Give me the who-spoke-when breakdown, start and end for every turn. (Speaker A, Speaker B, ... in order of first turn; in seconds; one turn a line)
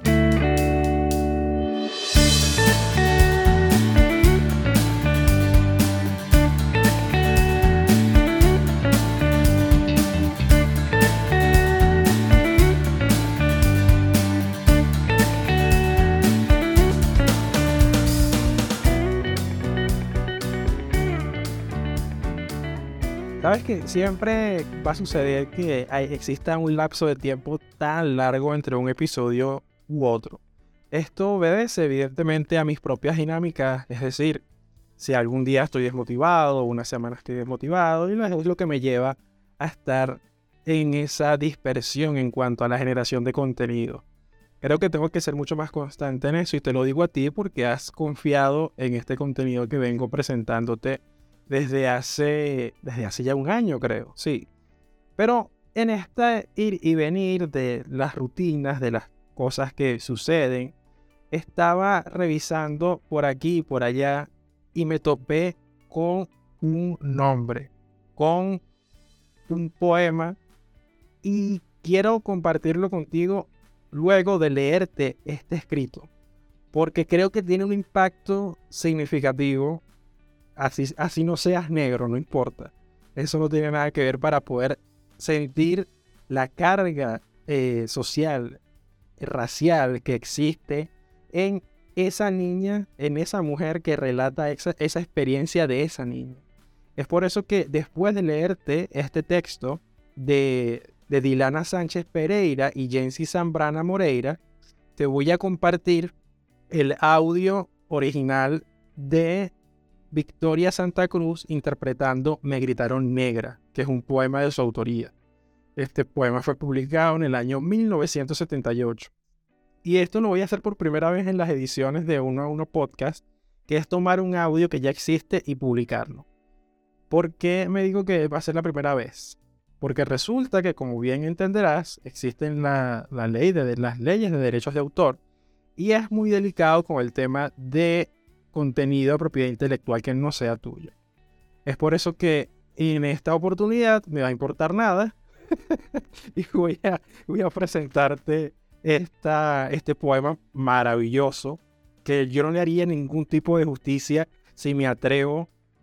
Speaker A: 23.4-34.5
Speaker A: 35.0-44.0
Speaker A: 44.6-54.5
Speaker A: 55.2-60.8
Speaker A: 61.3-68.6
Speaker A: 69.5-70.4
Speaker A: 71.2-76.1
Speaker A: 76.7-79.8
Speaker A: 80.6-88.6
Speaker A: 89.2-96.4
Speaker A: 97.0-104.4
Speaker A: 105.0-106.1
Speaker A: 106.7-109.5
Speaker A: 110.1-115.1
Speaker A: 115.8-119.1
Speaker A: 119.8-126.3
Speaker A: 127.1-135.2
Speaker A: 135.8-140.9
Speaker A: 141.7-145.2
Speaker A: 145.7-155.5